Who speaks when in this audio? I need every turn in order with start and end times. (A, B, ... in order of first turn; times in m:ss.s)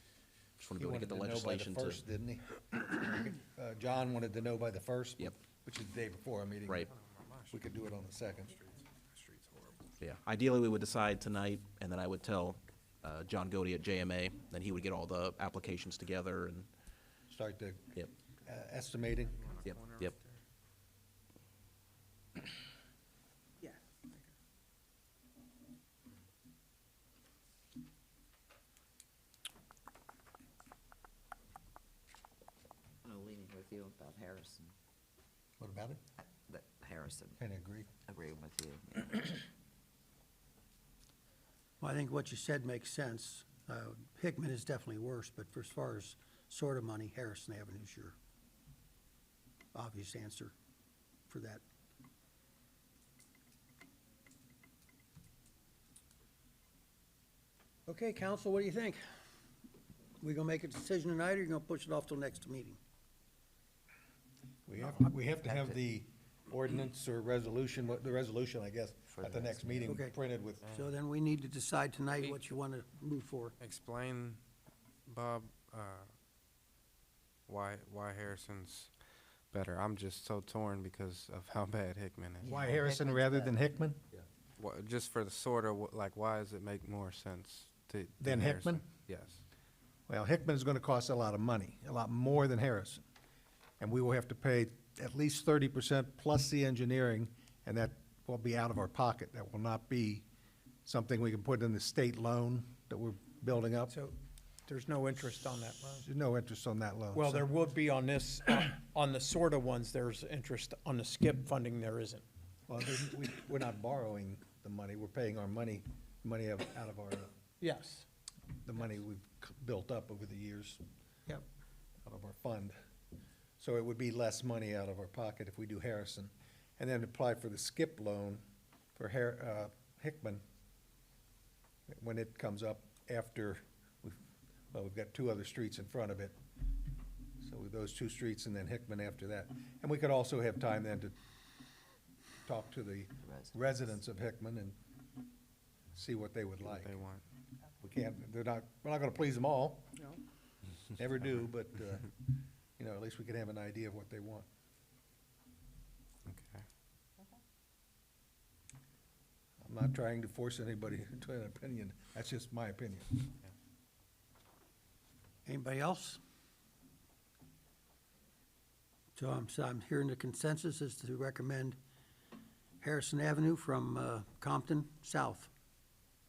0:00.6-0:02.0 A
0:00.8-0:06.9 B
0:06.9-0:07.6 C
0:07.5-0:08.5 B
0:08.5-0:09.9 C
0:10.0-0:16.7 A
0:17.3-0:17.8 B
0:18.4-0:19.4 B
0:19.4-0:20.4 C
0:19.6-0:20.2 A
0:33.0-0:34.7 D
0:35.6-0:36.0 B
0:36.2-0:37.4 D
0:37.4-0:37.9 B
0:38.1-0:39.3 D
0:41.8-0:48.2 E
0:49.7-0:50.5 E
0:51.3-0:51.6 E
0:57.9-0:59.0 E
1:00.2-1:02.8 E
1:04.7-1:10.6 B
1:05.5-1:05.8 D
1:09.1-1:09.9 D
1:09.9-1:10.2 E
1:10.6-1:10.9 C
1:10.7-1:13.6 E
1:13.6-1:14.4 C
1:15.1-1:16.1 C
1:17.5-1:18.9 C
1:19.5-1:22.6 C
1:22.4-1:23.6 D
1:22.4-1:24.0 B
1:24.6-1:29.4 C
1:28.2-1:28.8 B
1:30.1-1:33.0 B
1:33.8-1:40.3 B
1:40.8-1:43.9 B
1:43.9-1:44.2 F
1:44.7-1:46.1 F
1:46.0-1:47.5 B
1:47.1-1:52.2 F
1:52.7-1:57.3 B
1:57.6-1:58.1 F
1:58.6-2:00.8 B
2:02.0-2:02.8 B
2:03.6-2:08.4 B
2:09.0-2:10.4 B
2:11.9-2:14.2 B
2:14.7-2:16.4 B
2:17.4-2:21.2 B
2:22.5-2:24.8 B
2:25.9-2:26.9 B
2:26.6-2:27.2 C
2:27.8-2:30.0 B
2:31.0-2:32.2 B
2:32.8-2:34.5 B
2:36.3-2:36.6 C
2:39.6-2:43.3 B
2:45.5-2:46.2 E
2:49.2-2:51.8 E
2:52.8-2:55.5 E